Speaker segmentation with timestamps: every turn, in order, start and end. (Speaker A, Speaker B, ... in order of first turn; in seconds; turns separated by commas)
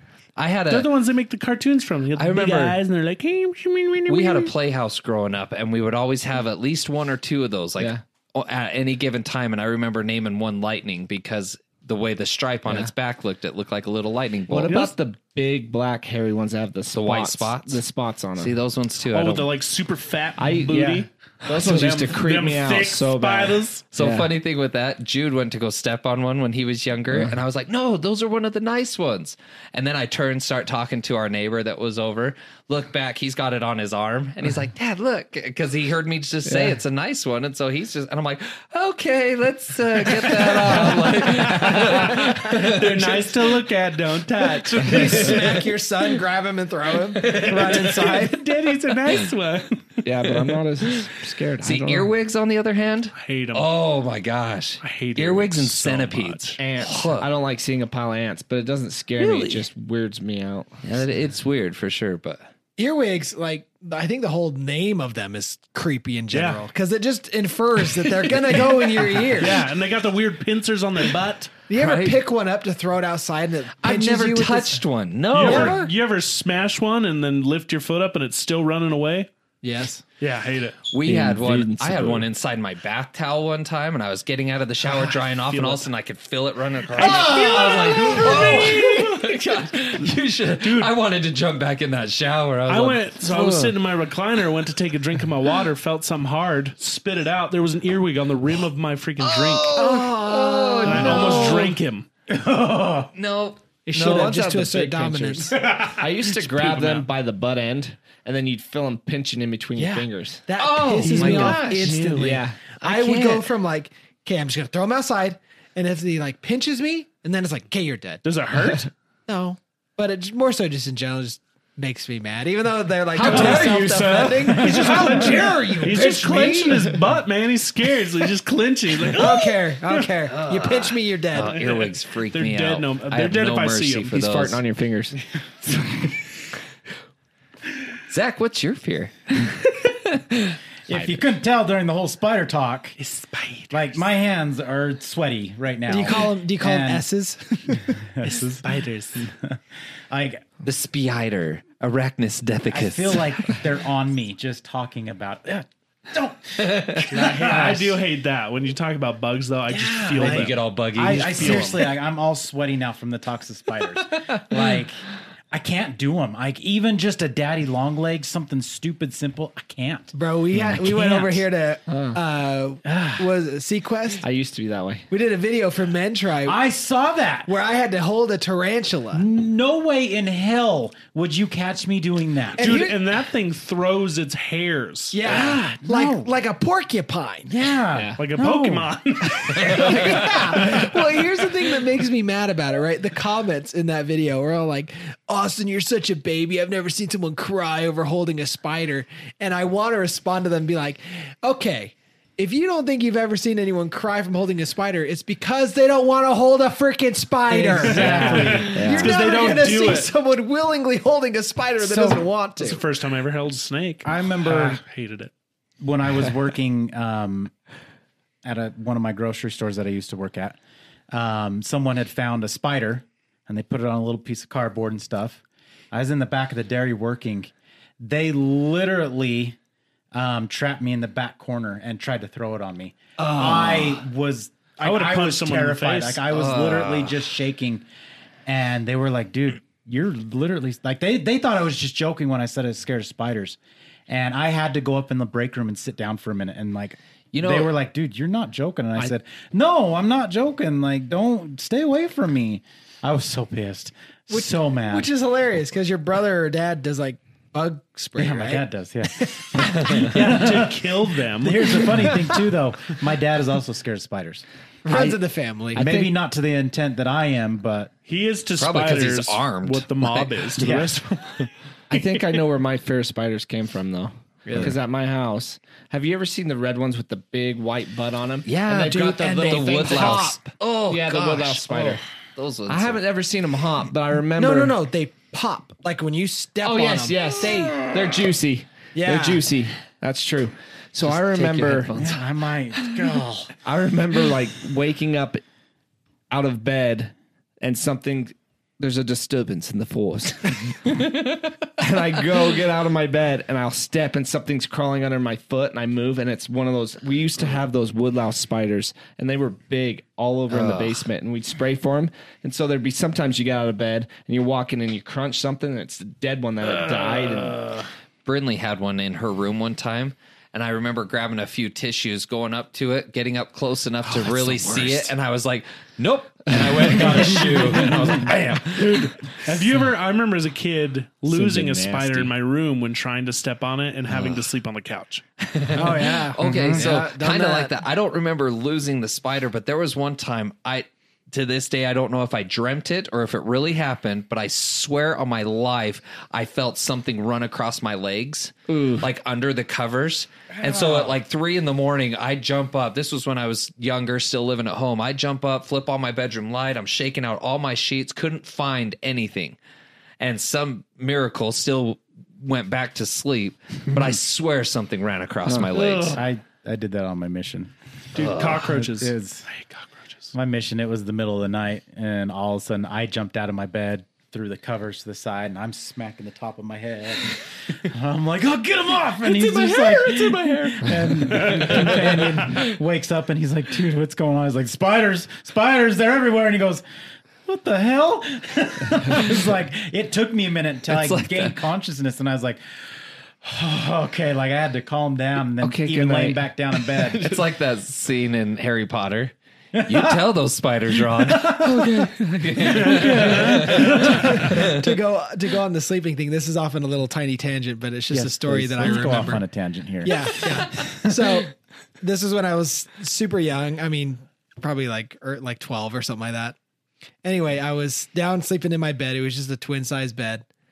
Speaker A: 0.4-0.9, Speaker B: 0.7-4.5, Speaker A: 2.1-2.8, Speaker A: 4.1-14.9, Speaker C: 12.7-12.9, Speaker C: 14.5-18.6, Speaker A: 16.9-17.8, Speaker A: 18.4-19.5, Speaker B: 19.1-23.8, Speaker C: 20.4-24.3, Speaker A: 23.9-43.5, Speaker C: 27.1-27.4, Speaker C: 36.4-36.8, Speaker B: 40.6-45.6, Speaker D: 44.8-48.4, Speaker B: 47.2-50.4, Speaker A: 47.3-47.8, Speaker C: 50.0-52.1, Speaker A: 51.6-57.3, Speaker B: 53.1-53.7, Speaker B: 54.8-56.6, Speaker C: 56.6-60.8, Speaker A: 59.2-59.6, Speaker A: 60.8-62.5, Speaker D: 62.8-69.6, Speaker B: 66.3-66.6, Speaker B: 69.1-71.7, Speaker D: 71.7-74.8, Speaker A: 71.7-72.2, Speaker A: 73.8-75.9, Speaker B: 75.3-79.3, Speaker D: 75.3-75.9, Speaker D: 79.6-80.0, Speaker B: 80.2-80.8, Speaker A: 80.9-93.8, Speaker C: 81.0-82.2, Speaker B: 84.8-85.8, Speaker B: 86.9-89.6, Speaker D: 87.3-88.5, Speaker B: 90.5-90.9, Speaker B: 92.7-99.8, Speaker A: 99.2-101.7, Speaker D: 99.7-101.7, Speaker B: 100.8-102.1, Speaker C: 101.0-101.5, Speaker E: 102.3-103.1, Speaker A: 103.1-103.6, Speaker D: 103.8-105.6, Speaker C: 103.9-110.5, Speaker B: 106.4-107.0, Speaker D: 109.8-118.2, Speaker A: 110.6-112.0, Speaker B: 111.0-112.4, Speaker C: 112.1-112.7, Speaker A: 112.8-113.5, Speaker B: 118.2-118.9, Speaker D: 119.3-127.0, Speaker A: 123.2-124.3, Speaker B: 123.2-130.0, Speaker E: 124.5-125.5, Speaker D: 129.1-131.6, Speaker A: 130.2-134.6, Speaker B: 131.6-134.1, Speaker C: 134.1-136.1, Speaker A: 138.1-140.6, Speaker E: 140.9-143.0, Speaker B: 143.0-143.9, Speaker E: 143.7-147.0, Speaker D: 145.9-147.9, Speaker E: 147.7-149.6, Speaker B: 148.4-149.3, Speaker E: 150.1-150.4, Speaker A: 150.6-153.6, Speaker E: 152.7-157.9, Speaker A: 156.6-157.8, Speaker B: 157.1-161.8, Speaker E: 159.7-171.4, Speaker A: 160.2-161.8, Speaker D: 170.1-174.2, Speaker C: 171.9-172.2, Speaker E: 172.8-173.2, Speaker C: 174.2-175.1, Speaker D: 175.1-176.6, Speaker E: 176.4-177.5, Speaker D: 177.4-179.2, Speaker E: 179.1-182.7, Speaker D: 182.6-183.0, Speaker B: 182.6-185.5, Speaker D: 185.1-187.5, Speaker E: 185.8-186.3, Speaker E: 187.5-188.9, Speaker C: 187.9-188.2, Speaker B: 188.2-191.1, Speaker D: 189.5-212.8, Speaker E: 207.5-208.8, Speaker B: 207.8-210.1, Speaker C: 208.7-209.2, Speaker E: 211.8-212.2, Speaker B: 212.6-215.3, Speaker E: 214.0-214.8, Speaker E: 215.8-217.5, Speaker E: 218.4-220.6, Speaker E: 221.1-229.6, Speaker E: 230.1-237.8, Speaker D: 233.2-233.9, Speaker B: 234.8-236.2, Speaker A: 236.3-237.2, Speaker E: 238.4-255.1, Speaker A: 247.3-247.7, Speaker D: 254.3-260.1, Speaker E: 258.2-264.4, Speaker A: 259.6-260.1, Speaker B: 260.0-262.1, Speaker D: 264.8-266.0, Speaker C: 264.9-265.1, Speaker E: 265.7-267.9, Speaker C: 265.8-266.1, Speaker B: 268.1-272.2, Speaker A: 268.5-270.6, Speaker E: 270.6-271.2, Speaker C: 271.9-282.0, Speaker D: 274.4-274.7, Speaker A: 278.4-283.0, Speaker D: 278.9-280.5, Speaker C: 282.7-284.8, Speaker D: 284.4-287.8, Speaker C: 286.6-292.1, Speaker D: 288.9-289.4, Speaker A: 291.0-292.2, Speaker E: 292.0-293.5, Speaker C: 293.6-295.4, Speaker C: 296.3-317.8, Speaker A: 310.5-311.1, Speaker A: 318.2-329.4, Speaker C: 324.2-325.1, Speaker E: 326.9-328.3, Speaker B: 328.8-335.2, Speaker E: 329.4-329.8, Speaker C: 331.3-332.3, Speaker A: 334.1-334.5, Speaker A: 335.4-359.6, Speaker D: 335.7-337.8, Speaker E: 335.8-336.9, Speaker C: 348.7-349.1, Speaker A: 360.2-366.2, Speaker C: 365.4-365.9, Speaker B: 365.7-366.1, Speaker E: 366.0-369.5, Speaker B: 368.1-370.3, Speaker A: 368.1-368.6, Speaker E: 370.3-386.8, Speaker B: 379.2-382.6, Speaker E: 387.4-392.6, Speaker A: 390.9-391.6, Speaker E: 393.4-397.4, Speaker C: 395.6-396.4, Speaker A: 397.0-399.3, Speaker E: 399.7-400.2, Speaker A: 399.8-404.9, Speaker E: 400.9-404.7, Speaker B: 402.8-404.1, Speaker D: 403.8-409.4, Speaker E: 408.1-411.2, Speaker D: 410.0-416.6, Speaker D: 417.2-420.4